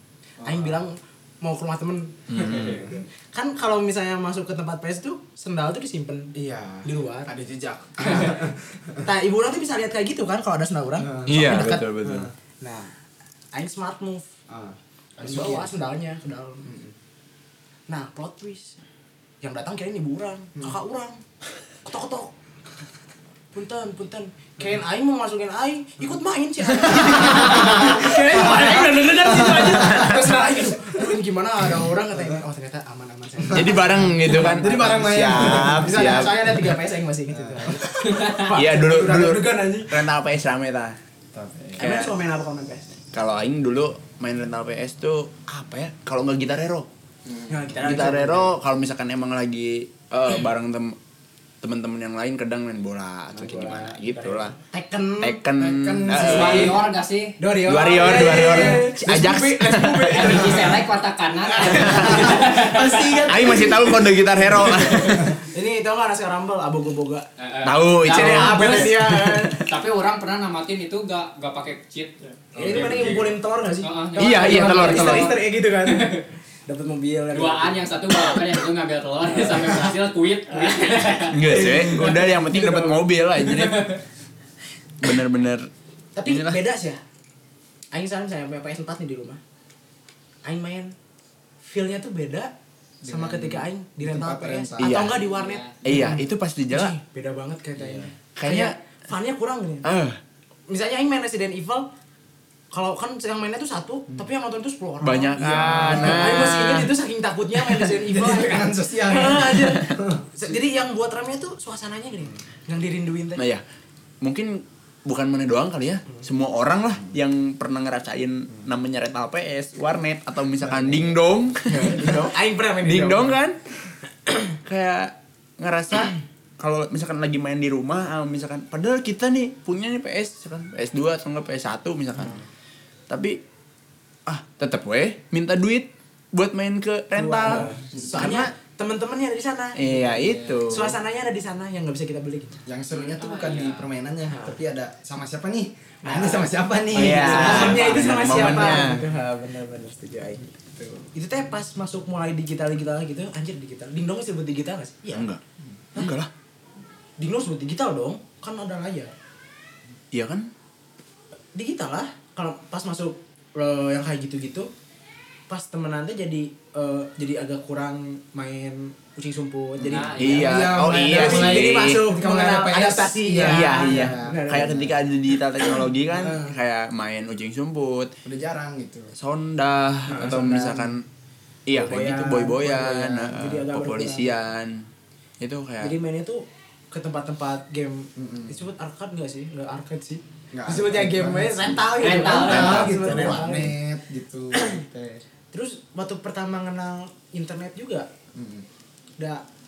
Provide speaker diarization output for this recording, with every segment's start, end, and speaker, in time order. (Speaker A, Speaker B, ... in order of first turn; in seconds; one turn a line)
Speaker A: 0.4-0.8
Speaker B: 0.4-6.3
Speaker C: 2.3-2.8
Speaker A: 2.3-3.0
Speaker A: 6.3-9.0
Speaker B: 6.8-7.3
Speaker B: 9.0-11.9
Speaker A: 11.0-12.3
Speaker C: 11.2-12.3
Speaker B: 12.6-12.9
Speaker B: 13.5-14.2
Speaker A: 14.5-15.7
Speaker B: 15.2-16.7
Speaker A: 16.6-16.9
Speaker B: 17.9-18.8
Speaker B: 19.4-21.2
Speaker B: 21.8-22.3
Speaker B: 23.5-40.0
Speaker A: 26.8-31.0
Speaker C: 29.5-30.4
Speaker A: 33.4-36.2
Speaker C: 33.5-36.6
Speaker A: 37.3-37.8
Speaker D: 38.1-38.4
Speaker C: 38.4-41.0
Speaker A: 41.3-41.8
Speaker B: 41.8-42.9
Speaker C: 41.8-42.1
Speaker C: 43.1-46.9
Speaker A: 47.2-47.6
Speaker B: 47.5-48.5
Speaker C: 47.8-51.0
Speaker C: 51.6-54.5
Speaker B: 53.3-55.4
Speaker C: 55.2-56.8
Speaker A: 55.6-56.8
Speaker D: 56.1-57.4
Speaker B: 56.3-56.7
Speaker B: 57.4-60.7
Speaker C: 57.6-60.5
Speaker A: 57.8-58.9
Speaker D: 60.1-63.4
Speaker A: 60.1-60.7
Speaker B: 61.6-62.4
Speaker A: 61.6-65.3
Speaker C: 61.7-62.2
Speaker C: 63.2-65.3
Speaker B: 65.3-67.3
Speaker D: 67.4-69.0
Speaker C: 67.6-69.7
Speaker B: 68.0-69.6
Speaker D: 69.6-73.2
Speaker A: 72.5-73.3
Speaker B: 72.5-77.9
Speaker D: 73.8-76.2
Speaker C: 74.2-75.3
Speaker D: 77.3-81.6
Speaker B: 79.4-79.8
Speaker C: 81.3-83.9
Speaker B: 81.5-83.0
Speaker D: 83.4-84.0
Speaker C: 85.0-85.7
Speaker B: 86.1-87.0
Speaker C: 86.2-86.6
Speaker B: 87.9-89.4
Speaker B: 90.4-90.9
Speaker B: 91.6-92.5
Speaker A: 93.0-95.1
Speaker B: 93.0-99.9
Speaker C: 94.8-95.2
Speaker D: 95.3-95.8
Speaker C: 95.8-97.0
Speaker A: 97.8-98.1
Speaker C: 98.3-98.7
Speaker C: 99.8-100.2
Speaker B: 100.7-101.9
Speaker B: 102.7-113.4
Speaker C: 105.0-106.9
Speaker A: 105.4-106.3
Speaker A: 108.0-110.2
Speaker C: 109.4-110.0
Speaker C: 113.3-113.6
Speaker C: 114.2-123.6
Speaker A: 120.6-121.2
Speaker B: 121.7-123.4
Speaker C: 124.6-132.4
Speaker C: 133.1-133.4
Speaker C: 134.3-138.5
Speaker B: 137.2-142.6
Speaker A: 137.4-138.3
Speaker C: 139.8-141.0
Speaker A: 142.7-149.0
Speaker D: 142.9-143.9
Speaker B: 144.3-144.6
Speaker B: 146.0-155.3
Speaker C: 146.9-149.1
Speaker C: 155.1-155.4
Speaker C: 155.9-156.3
Speaker B: 157.2-159.1
Speaker C: 160.1-160.5
Speaker B: 161.5-164.7
Speaker B: 165.5-174.9
Speaker A: 169.8-174.8
Speaker D: 169.9-170.6
Speaker C: 170.2-172.0
Speaker C: 173.4-178.1
Speaker A: 178.2-179.1
Speaker C: 179.2-181.0
Speaker B: 180.1-180.8
Speaker A: 180.1-180.7
Speaker C: 181.7-184.9
Speaker B: 181.7-184.3
Speaker C: 185.4-185.9
Speaker B: 185.8-193.7
Speaker A: 188.2-188.6
Speaker A: 190.5-195.2
Speaker D: 192.0-193.3
Speaker B: 194.5-194.8
Speaker B: 195.5-198.1
Speaker A: 198.3-198.6
Speaker B: 199.2-199.4